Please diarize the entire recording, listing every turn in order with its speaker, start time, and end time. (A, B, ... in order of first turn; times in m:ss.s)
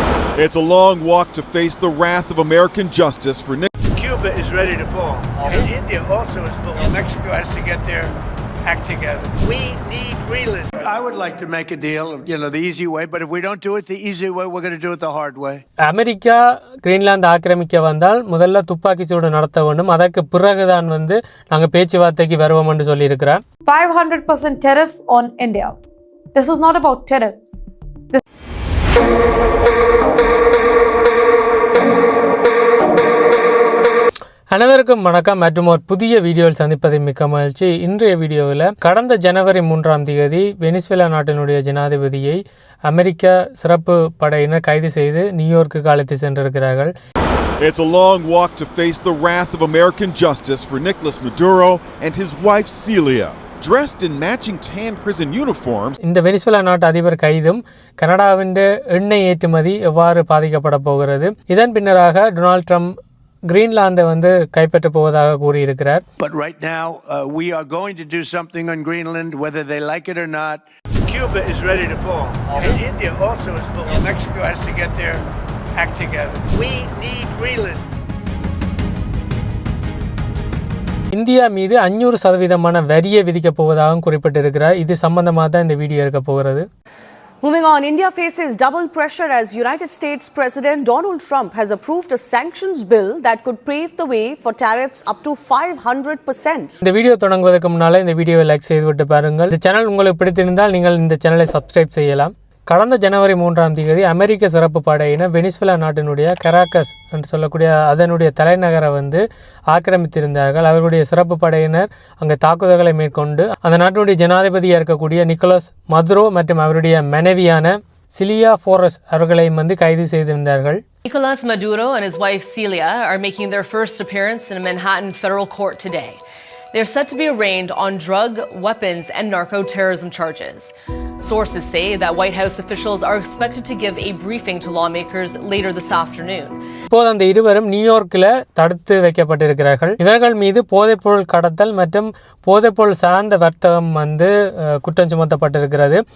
0:00.4-0:03.7 A
0:03.9-0:08.1 B
0:08.6-0:15.6 B
0:15.9-0:23.4 C
0:23.6-0:25.8 D
0:26.3-0:28.2 D
0:34.5-0:46.9 C
0:47.6-0:56.0 A
0:56.0-1:02.9 C
1:03.5-1:06.0 C
1:06.2-1:15.2 B
1:15.8-1:17.8 B
1:21.1-1:26.6 C
1:27.4-1:36.7 E
1:36.8-2:00.8 C
2:01.0-2:06.2 F
2:06.7-2:16.6 F
2:16.9-2:26.0 C